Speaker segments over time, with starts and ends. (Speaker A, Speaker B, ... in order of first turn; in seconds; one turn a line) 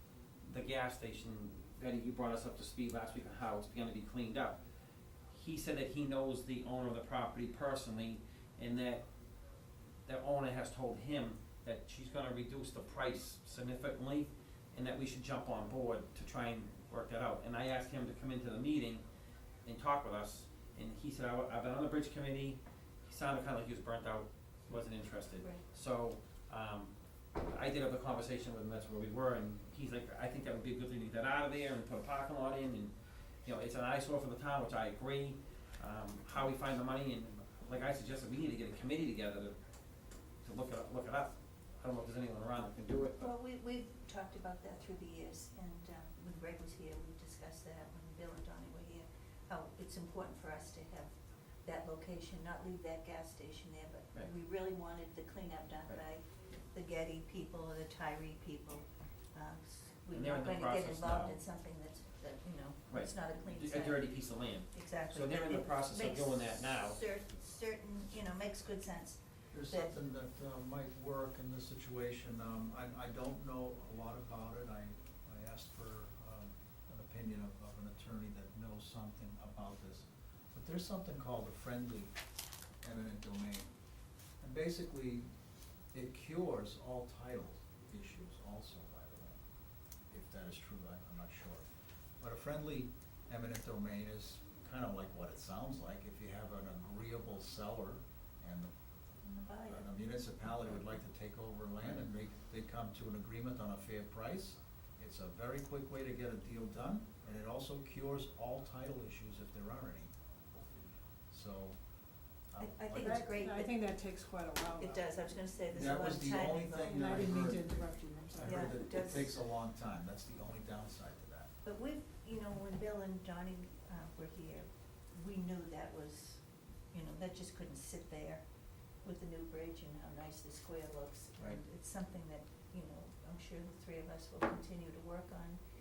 Speaker A: 0.4-4.6
Speaker A: 5.3-9.1
Speaker A: 10.1-19.0
Speaker A: 19.7-32.9
Speaker A: 33.5-39.6
Speaker A: 40.4-43.3
Speaker B: 43.2-51.1
Speaker B: 51.6-64.1
Speaker A: 60.1-61.4
Speaker A: 62.9-67.0
Speaker B: 64.7-69.9
Speaker C: 69.5-82.1
Speaker C: 82.8-83.7
Speaker C: 84.4-85.3
Speaker C: 85.9-89.4
Speaker C: 90.1-91.7
Speaker C: 92.2-98.7
Speaker B: 99.2-99.9
Speaker C: 99.7-110.1
Speaker C: 111.3-111.8
Speaker C: 112.5-113.4
Speaker B: 112.6-113.8
Speaker D: 113.0-115.1
Speaker B: 114.8-117.3
Speaker C: 115.7-117.8
Speaker D: 116.9-118.8
Speaker C: 118.3-121.5
Speaker B: 118.4-119.4
Speaker B: 121.7-126.4
Speaker B: 126.9-128.4
Speaker B: 129.0-135.6